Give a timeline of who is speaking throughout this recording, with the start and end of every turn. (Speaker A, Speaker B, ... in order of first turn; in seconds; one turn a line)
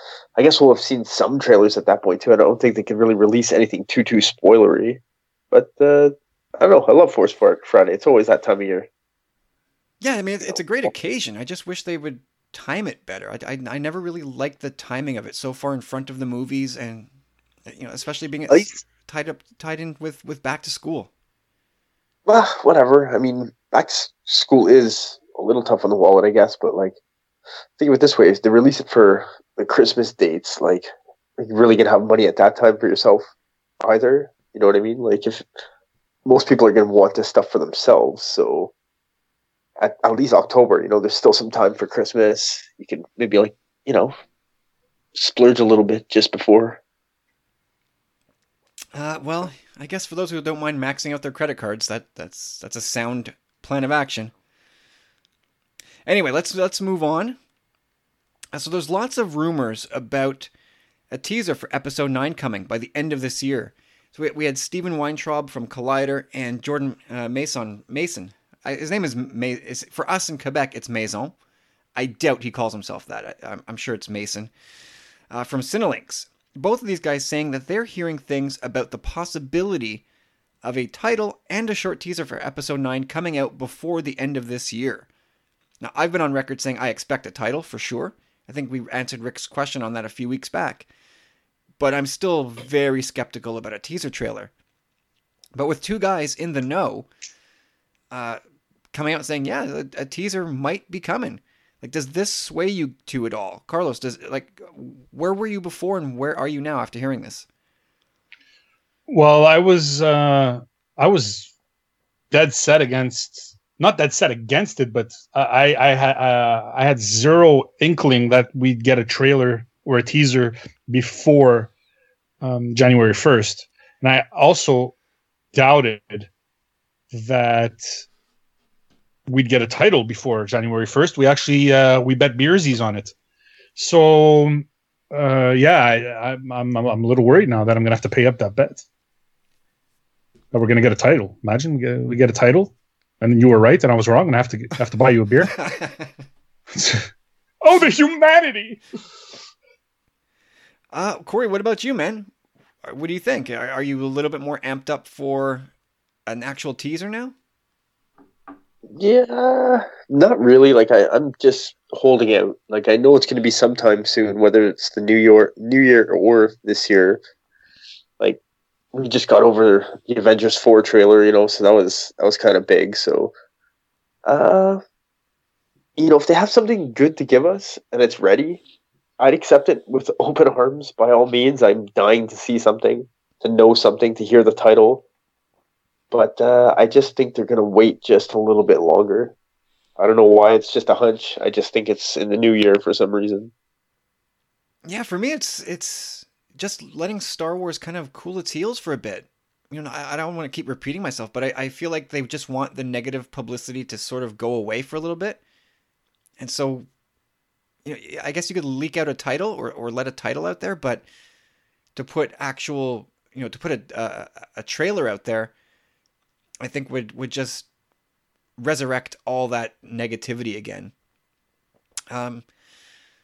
Speaker A: 0.3-5.0
Speaker A: 5.5-8.9
Speaker B: 10.0-17.1
Speaker A: 10.5-10.9
Speaker B: 17.7-21.1
Speaker A: 22.2-27.0
Speaker A: 27.8-33.2
Speaker A: 33.8-35.4
Speaker A: 36.2-38.7
Speaker A: 39.8-44.1
Speaker A: 45.1-46.8
Speaker B: 48.9-54.3
Speaker B: 56.0-57.4
Speaker B: 58.5-60.5
Speaker B: 61.1-71.3
Speaker B: 72.0-74.5
Speaker B: 75.3-80.0
Speaker B: 80.6-85.1
Speaker B: 85.8-90.9
Speaker B: 91.8-94.5
Speaker B: 95.5-97.1
Speaker B: 98.1-98.4
Speaker B: 98.9-107.5
Speaker C: 109.1-111.5
Speaker C: 112.3-121.7
Speaker C: 122.4-124.9
Speaker C: 125.5-126.3
Speaker C: 127.1-128.0
Speaker C: 129.3-133.1
Speaker C: 133.8-138.8
Speaker C: 140.5-145.5
Speaker B: 145.5-146.1
Speaker C: 146.7-147.1
Speaker C: 147.6-148.8
Speaker B: 150.9-152.3
Speaker B: 152.8-155.7
Speaker B: 156.3-157.3
Speaker A: 158.9-167.2
Speaker A: 168.9-173.3
Speaker A: 174.2-174.8
Speaker A: 176.0-178.6
Speaker A: 179.2-185.0
Speaker A: 186.1-189.3
Speaker A: 190.0-193.5
Speaker B: 194.8-205.4
Speaker B: 206.4-206.9
Speaker B: 207.8-211.0
Speaker B: 211.9-215.5
Speaker B: 216.6-217.7
Speaker B: 218.6-220.9
Speaker B: 222.1-222.4